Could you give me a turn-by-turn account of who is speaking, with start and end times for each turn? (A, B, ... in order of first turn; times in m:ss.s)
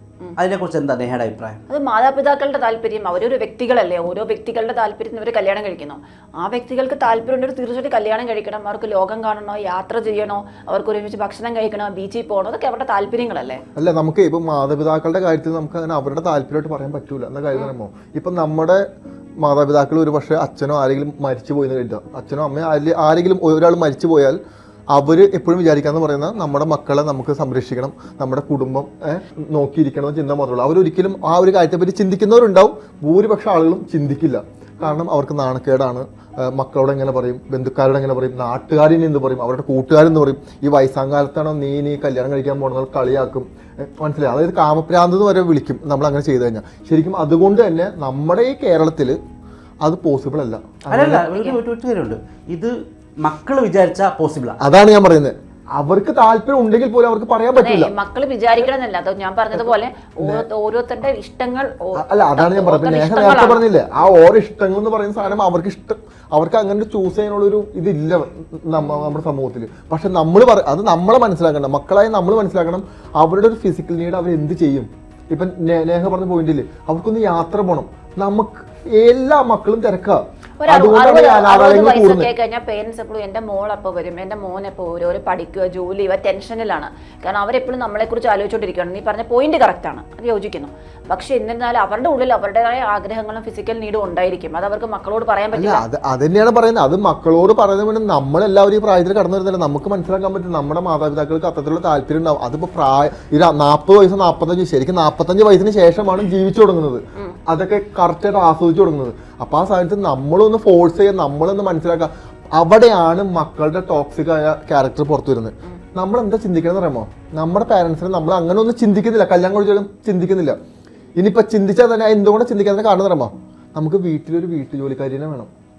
0:00.4-0:01.6 A
0:01.7-0:13.6 B
0:13.8-0:18.8 C
0:19.4-0:24.4 C
0:24.9-0:49.2 C
0:49.8-0:51.3 C
0:50.9-0:54.6 A
0:51.3-0:51.6 B
0:54.6-0:57.9 C
0:57.6-1:03.6 B
0:59.6-1:00.5 C
1:02.0-1:22.3 C
1:08.8-1:09.2 B
1:20.6-1:35.8 B
1:35.5-2:00.6 C
2:01.2-2:05.5 C